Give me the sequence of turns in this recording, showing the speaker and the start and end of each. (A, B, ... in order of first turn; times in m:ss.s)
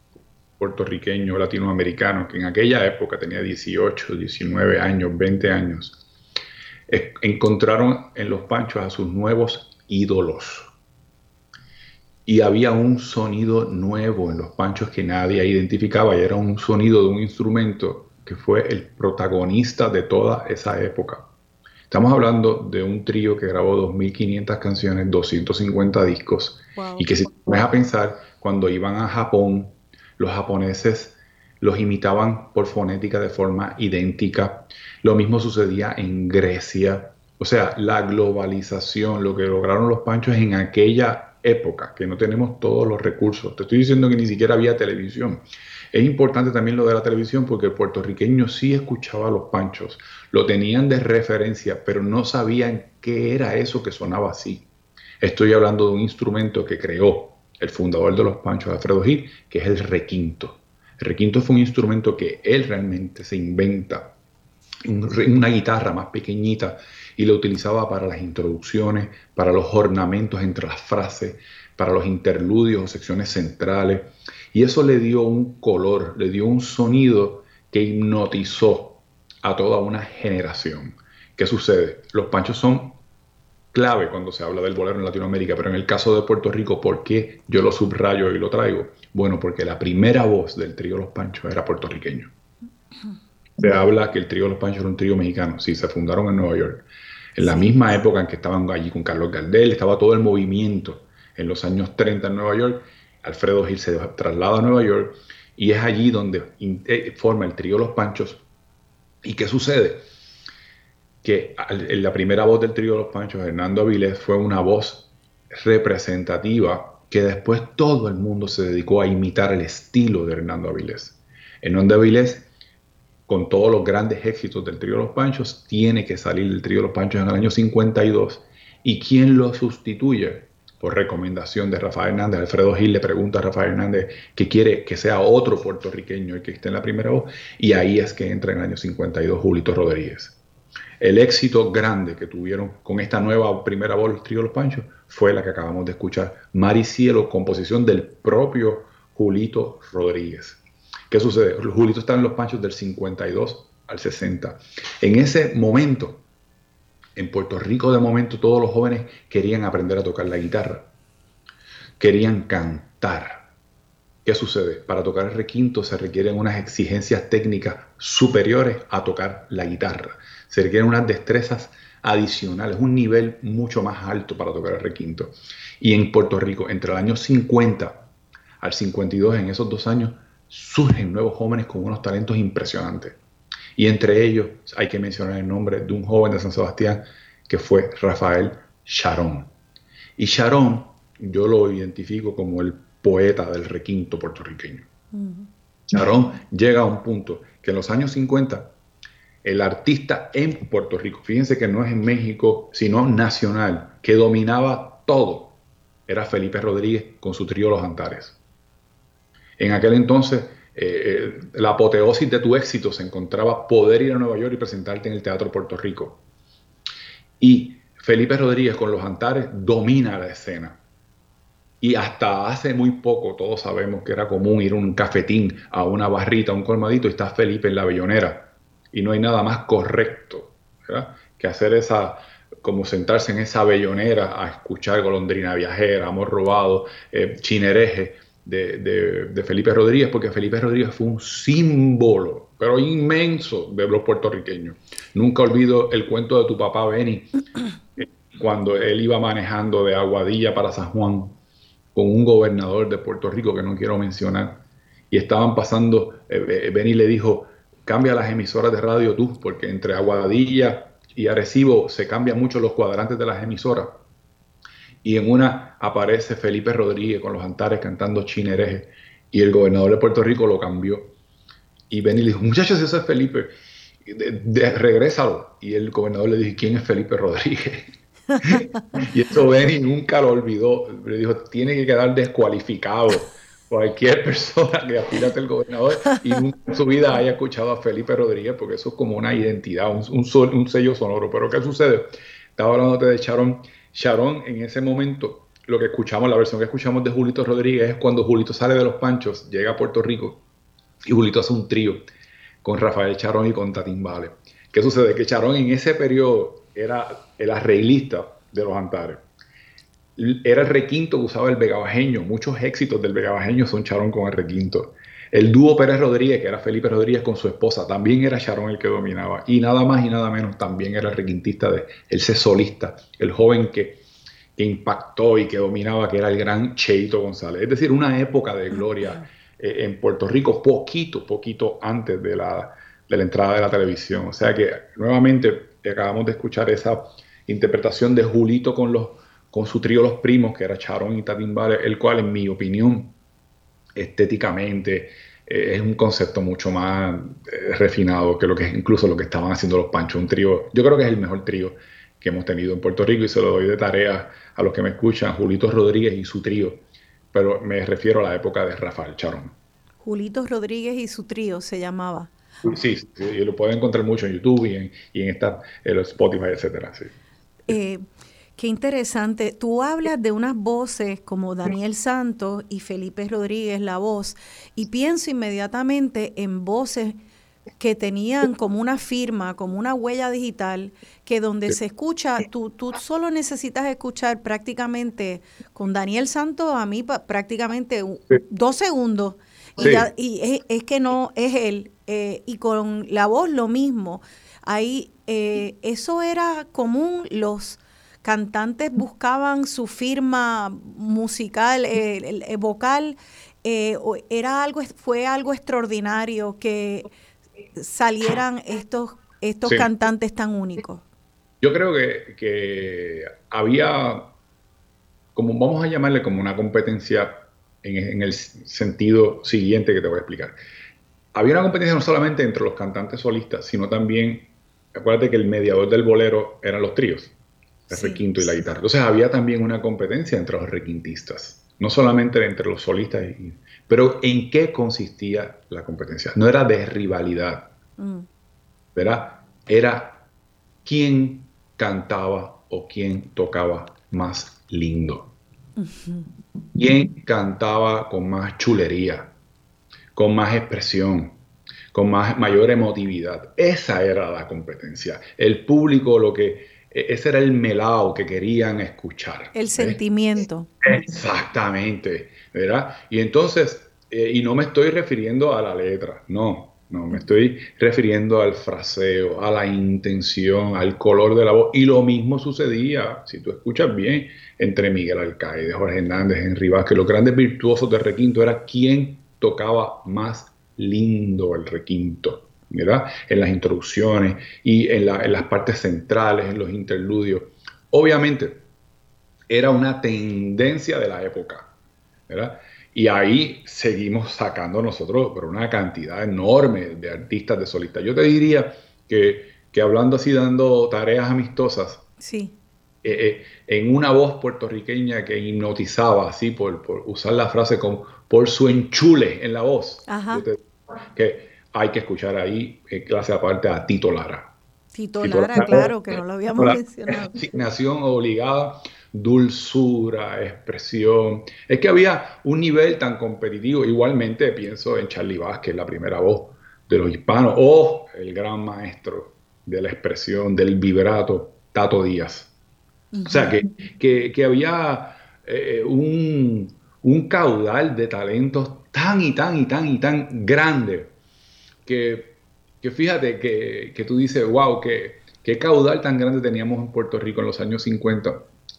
0:00.6-0:06.0 A
0:06.9-0:10.7 A
0:12.2-0:21.3 A
0:21.9-0:54.7 A
0:26.8-0:27.1 B
0:55.2-1:04.1 A
1:04.8-1:23.0 A
1:23.7-1:32.3 A
1:33.6-1:48.4 A
1:49.2-1:50.0 A
1:51.2-2:02.5 A
2:03.3-2:20.4 A
2:21.0-2:36.2 A
2:37.2-2:40.9 A
2:42.0-2:43.5 A
2:44.2-2:58.1 A
2:58.6-3:03.2 A
3:03.8-3:09.5 A
3:10.2-3:14.9 A
3:15.1-3:15.5 B
3:15.9-3:18.7 A
3:19.4-3:28.4 A
3:29.6-3:36.2 A
3:37.4-3:40.8 A
3:41.8-4:07.3 A
4:08.0-4:11.4 A
4:11.9-4:24.0 A
4:25.0-4:31.1 A
4:31.9-5:00.4 A
5:01.0-5:02.1 A
5:02.6-5:09.2 A
5:10.2-5:24.0 A
5:24.6-5:43.1 A
5:44.0-5:56.8 A
5:57.3-5:59.5 A
6:00.0-6:02.3 B
6:02.6-6:07.1 A
6:07.7-6:08.0 B
6:08.6-6:17.2 B
6:17.8-6:47.1 B
6:29.8-6:30.1 A
6:47.8-6:51.0 B
6:51.6-6:54.3 A
6:55.3-7:00.6 A
7:01.3-7:07.3 A
7:07.9-7:17.7 A
7:07.9-7:08.2 B
7:18.0-7:18.3 B
7:18.9-7:20.2 A
7:20.8-7:25.3 A
7:25.8-7:26.3 B
7:26.7-7:29.3 A
7:30.1-7:31.4 A
7:31.9-7:40.0 A
7:39.5-7:40.7 B
7:40.8-8:08.6 A
8:09.5-8:11.7 A
8:12.3-8:22.0 A
8:22.2-8:22.5 B
8:23.0-8:34.5 A
8:30.1-8:30.4 B
8:34.9-8:37.4 B
8:35.2-8:35.9 A
8:36.6-8:52.5 A
8:53.1-8:53.6 B
8:53.2-9:01.1 A
9:01.8-9:08.5 A